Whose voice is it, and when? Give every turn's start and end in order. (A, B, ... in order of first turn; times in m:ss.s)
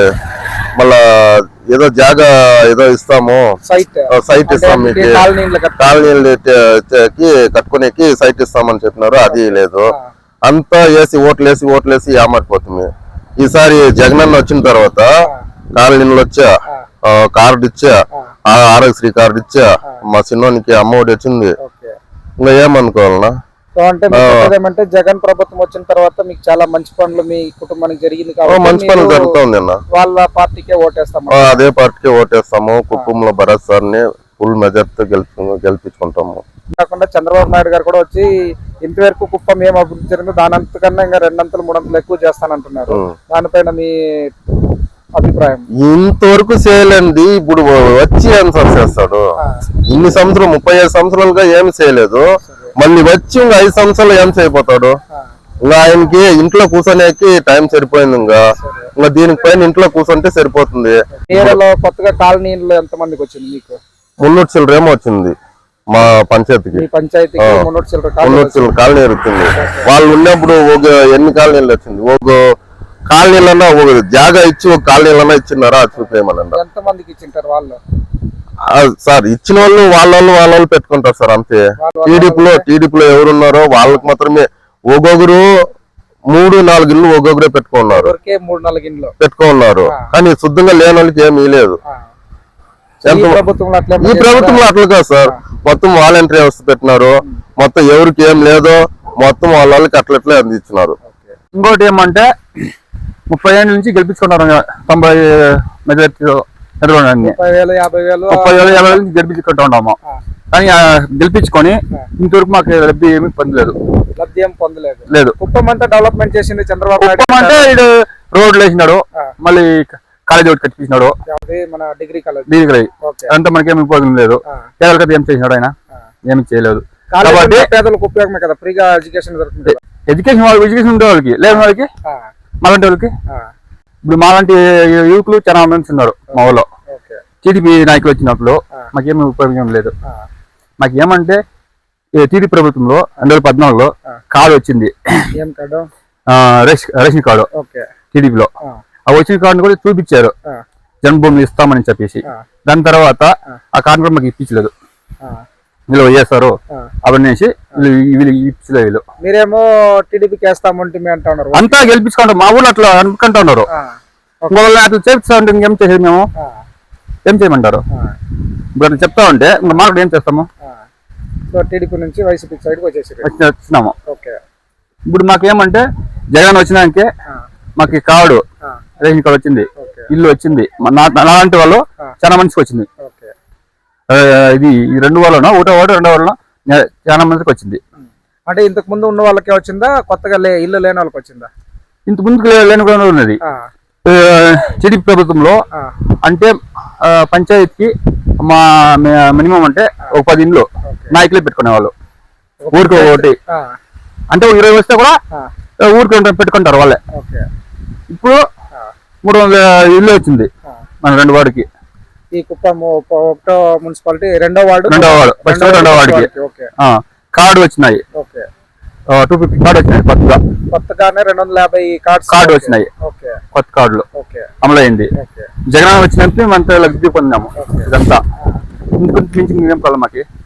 0:00.8-0:03.4 A
0:03.6-0:06.1 B
0:04.1-0:05.2 A
0:05.8-0:09.9 A
0:09.2-0:10.1 B
0:10.4-0:12.9 A
0:13.4-0:15.1 A
0:15.7-0:16.5 A
0:17.1-0:17.9 A
0:18.5-0:21.5 A
0:21.6-0:21.9 B
0:22.4-0:23.3 A
0:23.8-0:29.3 B
0:24.1-0:24.5 A
0:28.4-0:29.8 A
0:29.9-0:31.6 B
0:31.3-0:36.4 A
0:36.7-0:44.3 B
0:45.2-0:45.6 B
0:45.8-0:49.2 A
0:49.9-0:52.2 A
0:52.4-0:52.7 B
0:52.8-0:55.0 A
0:55.6-0:58.4 A
0:58.6-0:58.9 B
0:59.0-1:01.6 A
1:01.2-1:03.8 B
1:04.2-1:05.3 A
1:05.9-1:06.8 A
1:06.7-1:08.7 B
1:07.4-1:07.6 A
1:08.2-1:12.4 A
1:09.6-1:09.9 B
1:13.1-1:16.6 A
1:16.0-1:17.8 B
1:18.7-1:25.5 A
1:21.8-1:22.6 B
1:23.7-1:24.1 B
1:26.3-1:28.1 A
1:27.9-1:29.1 B
1:29.2-1:31.8 A
1:33.0-1:34.6 B
1:33.0-1:33.4 A
1:34.0-1:41.0 A
1:41.1-1:41.3 B
1:41.5-1:42.2 C
1:43.3-1:47.4 C
1:47.2-1:49.0 B
1:48.3-1:50.0 C
1:50.5-1:53.8 C
1:54.2-1:57.7 B
1:55.1-1:55.3 C
1:57.0-2:01.1 C
2:01.3-2:02.5 B
2:02.5-2:05.7 C
2:03.0-2:03.3 B
2:06.3-2:07.7 C
2:07.1-2:09.8 B
2:09.6-2:11.9 C
2:11.5-2:12.2 B
2:12.6-2:13.1 C
2:14.0-2:16.7 C
2:16.9-2:17.2 B
2:17.4-2:19.9 C
2:20.8-2:21.4 C
2:22.2-2:25.3 C
2:25.3-2:25.9 B
2:26.3-2:27.5 C
2:27.5-2:27.9 B
2:28.1-2:28.5 C
2:29.1-2:30.3 C
2:31.0-2:34.7 C
2:35.9-2:39.0 C
2:39.2-2:41.8 B
2:41.5-2:43.7 C
2:43.7-2:44.6 B
2:44.5-2:46.3 C
2:46.4-2:46.6 B
2:47.2-2:47.8 C
2:48.7-2:50.5 C
2:51.5-2:53.3 B
2:53.2-2:53.9 C
2:54.0-2:54.4 B
2:55.1-2:57.1 C
2:57.8-2:58.4 C
2:59.0-3:02.9 C
2:59.8-3:00.1 B
3:03.0-3:03.3 B
3:04.1-3:07.8 C
3:08.0-3:11.5 B
3:12.1-3:13.4 C
3:14.1-3:15.6 C
3:16.2-3:21.9 C
3:20.8-3:21.2 B
3:22.6-3:23.6 B
3:22.7-3:23.3 C
3:24.3-3:25.2 C
3:25.8-3:27.0 C
3:27.1-3:27.4 B
3:28.1-3:28.4 C
3:29.2-3:30.5 C
3:31.0-3:31.7 C
3:32.3-3:36.7 B
3:34.9-3:36.3 C
3:36.8-3:38.0 C
3:38.1-3:38.5 B
3:39.1-3:40.4 C
3:40.7-3:43.4 B
3:42.3-3:42.9 C
3:43.5-3:44.0 C
3:44.1-3:44.5 B
3:44.6-3:45.1 C
3:45.1-3:45.5 B
3:45.7-3:48.2 C
3:47.6-3:47.9 B
3:49.0-3:50.2 C